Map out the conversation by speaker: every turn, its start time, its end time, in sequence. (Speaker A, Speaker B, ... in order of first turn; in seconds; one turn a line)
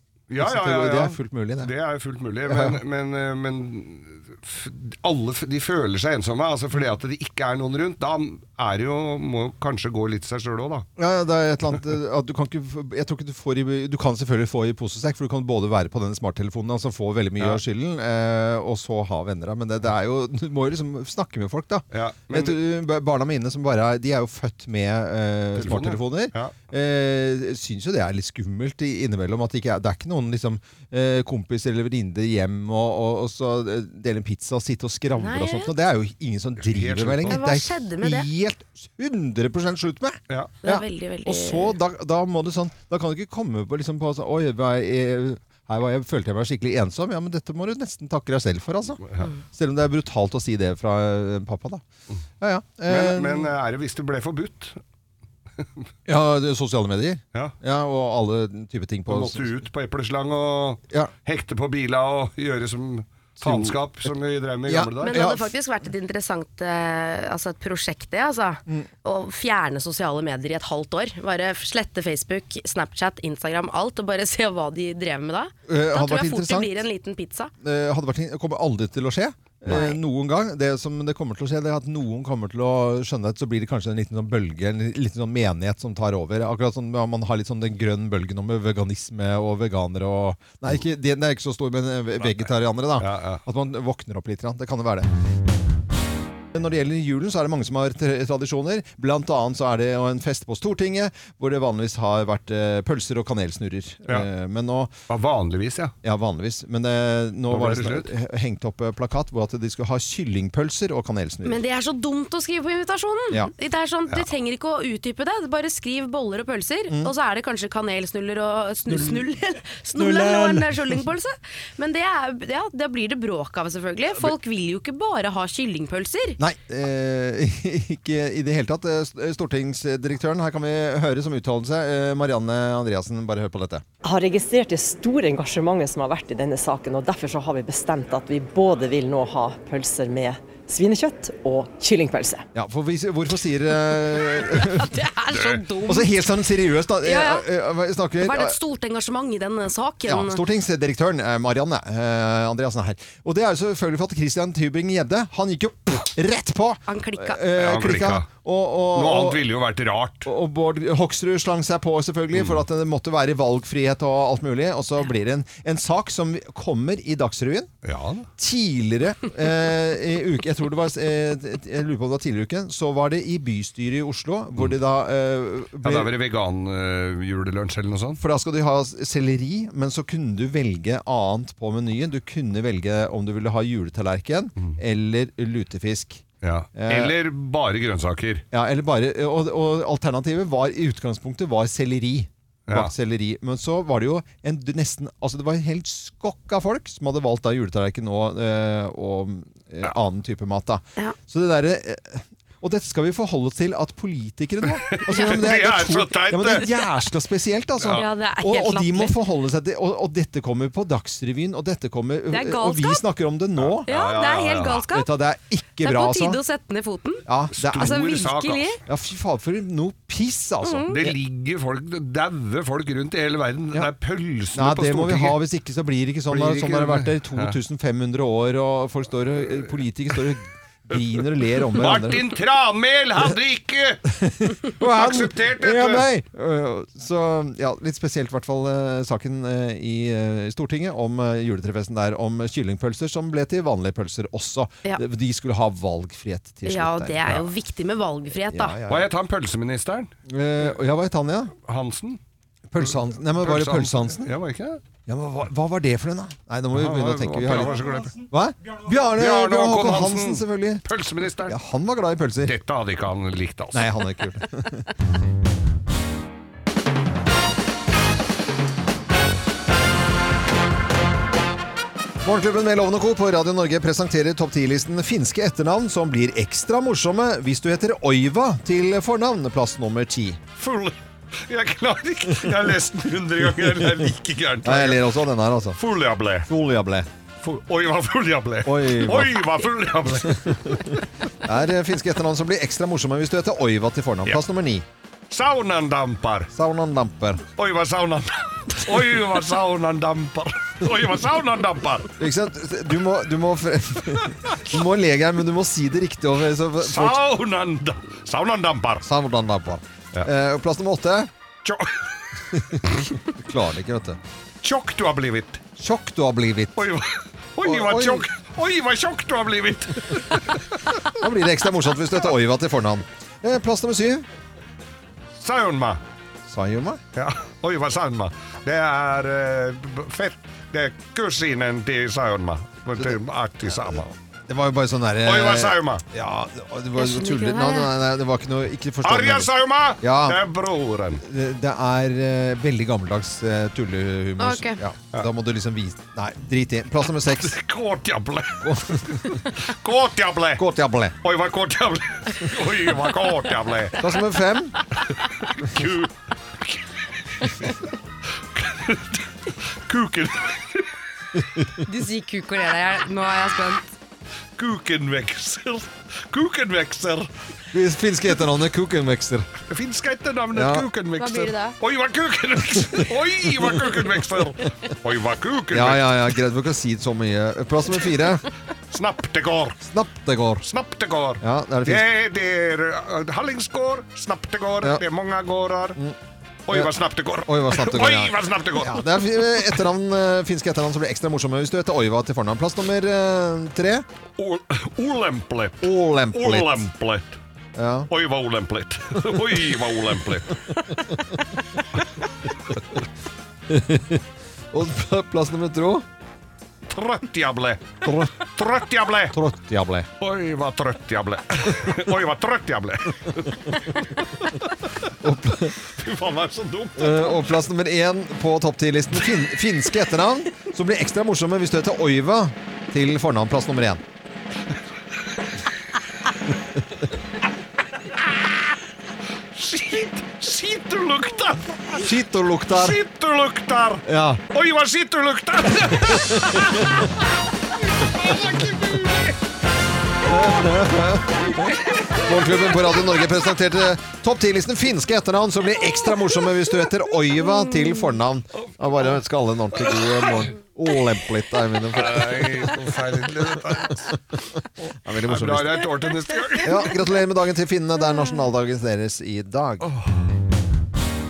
Speaker A: 0.3-10.9
Speaker B: 0.4-1.7
Speaker B: 2.5-2.8
Speaker B: 11.0-51.8
Speaker A: 21.9-22.6
Speaker A: 25.6-26.5
Speaker C: 35.2-35.7
Speaker A: 36.6-37.4
Speaker C: 37.3-38.3
Speaker A: 40.3-40.5
Speaker C: 40.6-41.8
Speaker B: 52.4-53.5
Speaker A: 52.9-54.8
Speaker B: 56.1-59.5
Speaker A: 59.1-65.2
Speaker B: 63.4-64.1
Speaker B: 64.7-65.5
Speaker C: 65.0-77.5
Speaker B: 75.7-76.8
Speaker B: 77.6-95.1
Speaker C: 79.7-80.0
Speaker A: 92.2-93.4
Speaker B: 96.5-104.9
Speaker A: 105.1-105.9
Speaker B: 106.0-111.6
Speaker A: 107.5-108.1
Speaker C: 111.4-126.4
Speaker B: 118.9-119.2
Speaker B: 120.0-121.0
Speaker B: 126.4-133.8
Speaker D: 134.0-142.4
Speaker B: 142.5-144.9
Speaker C: 144.5-146.1
Speaker A: 145.3-145.6
Speaker B: 145.8-148.6
Speaker C: 147.0-147.4
Speaker C: 148.2-150.4
Speaker B: 150.1-159.4
Speaker C: 156.9-157.4
Speaker A: 157.6-158.2
Speaker A: 158.9-160.3
Speaker B: 160.2-167.7
Speaker A: 162.3-162.6
Speaker A: 167.8-168.3
Speaker B: 168.4-176.1
Speaker A: 175.8-178.2
Speaker B: 178.2-186.2
Speaker A: 186.4-188.4
Speaker B: 186.8-187.1
Speaker B: 188.5-213.9
Speaker A: 204.8-206.7
Speaker C: 207.9-209.1
Speaker C: 212.3-213.0
Speaker A: 213.6-214.8
Speaker C: 213.8-215.1
Speaker B: 214.9-216.4
Speaker C: 215.8-217.2
Speaker B: 217.2-218.0
Speaker A: 217.6-218.7
Speaker C: 217.8-218.8
Speaker B: 218.8-221.2
Speaker C: 220.6-220.9
Speaker A: 220.9-225.4
Speaker B: 224.5-232.2
Speaker A: 226.3-227.6
Speaker A: 231.7-234.0
Speaker B: 234.1-247.3
Speaker A: 234.8-236.1
Speaker C: 246.7-248.8
Speaker B: 248.5-249.1
Speaker A: 248.9-250.1
Speaker B: 250.3-251.5
Speaker A: 251.6-252.2
Speaker B: 252.7-254.3
Speaker A: 252.8-254.8
Speaker B: 255.1-260.8
Speaker A: 256.7-258.2
Speaker A: 259.1-261.5
Speaker B: 261.5-262.5
Speaker A: 262.4-264.1
Speaker B: 263.7-264.9
Speaker B: 272.2-280.4
Speaker A: 280.6-285.1
Speaker B: 283.5-284.1
Speaker B: 284.6-285.8
Speaker A: 285.8-286.5
Speaker B: 286.4-287.1
Speaker A: 287.4-291.0
Speaker B: 288.6-289.4
Speaker B: 290.3-294.8
Speaker A: 295.3-296.5
Speaker B: 296.5-297.4
Speaker A: 297.6-302.1
Speaker B: 302.2-307.2
Speaker A: 306.8-309.0
Speaker B: 309.0-311.3
Speaker A: 311.6-312.0
Speaker B: 312.5-314.2
Speaker A: 314.6-315.6
Speaker B: 315.8-316.8
Speaker A: 316.8-320.6
Speaker B: 317.6-318.2
Speaker B: 321.1-324.2
Speaker A: 325.4-326.0
Speaker B: 326.5-327.0
Speaker A: 327.1-334.1
Speaker B: 333.7-339.5
Speaker A: 335.2-336.0
Speaker C: 337.0-337.9
Speaker A: 339.0-341.2
Speaker B: 340.0-340.4
Speaker B: 341.2-347.6
Speaker C: 344.4-344.8
Speaker A: 347.3-350.6
Speaker B: 348.6-349.4
Speaker B: 350.6-351.1
Speaker A: 351.2-354.0
Speaker B: 354.0-354.8
Speaker A: 355.6-356.1
Speaker A: 357.4-357.7
Speaker A: 358.5-360.9
Speaker C: 361.8-363.9
Speaker A: 364.6-367.3
Speaker B: 367.7-369.5
Speaker A: 369.7-376.3
Speaker B: 370.5-370.9
Speaker C: 371.2-371.8
Speaker B: 375.7-378.4
Speaker A: 378.9-379.8
Speaker B: 379.9-380.7
Speaker A: 380.7-386.0
Speaker B: 381.4-382.0
Speaker A: 386.7-389.7
Speaker B: 387.4-394.0
Speaker A: 394.4-397.4
Speaker B: 395.8-396.9
Speaker B: 397.8-398.1
Speaker A: 398.1-400.6
Speaker B: 403.7-406.0
Speaker A: 406.9-409.3
Speaker B: 408.0-408.3
Speaker B: 409.3-410.1
Speaker A: 410.2-414.5
Speaker B: 415.2-415.7
Speaker A: 415.8-417.4
Speaker B: 417.0-424.0
Speaker A: 428.1-428.4
Speaker A: 429.5-432.0
Speaker B: 431.9-433.0
Speaker A: 432.7-437.1
Speaker B: 434.0-434.4
Speaker B: 436.1-436.8
Speaker A: 437.9-439.4
Speaker B: 440.2-452.7
Speaker A: 451.9-454.1
Speaker A: 454.8-456.9
Speaker B: 455.0-455.8
Speaker B: 456.6-459.9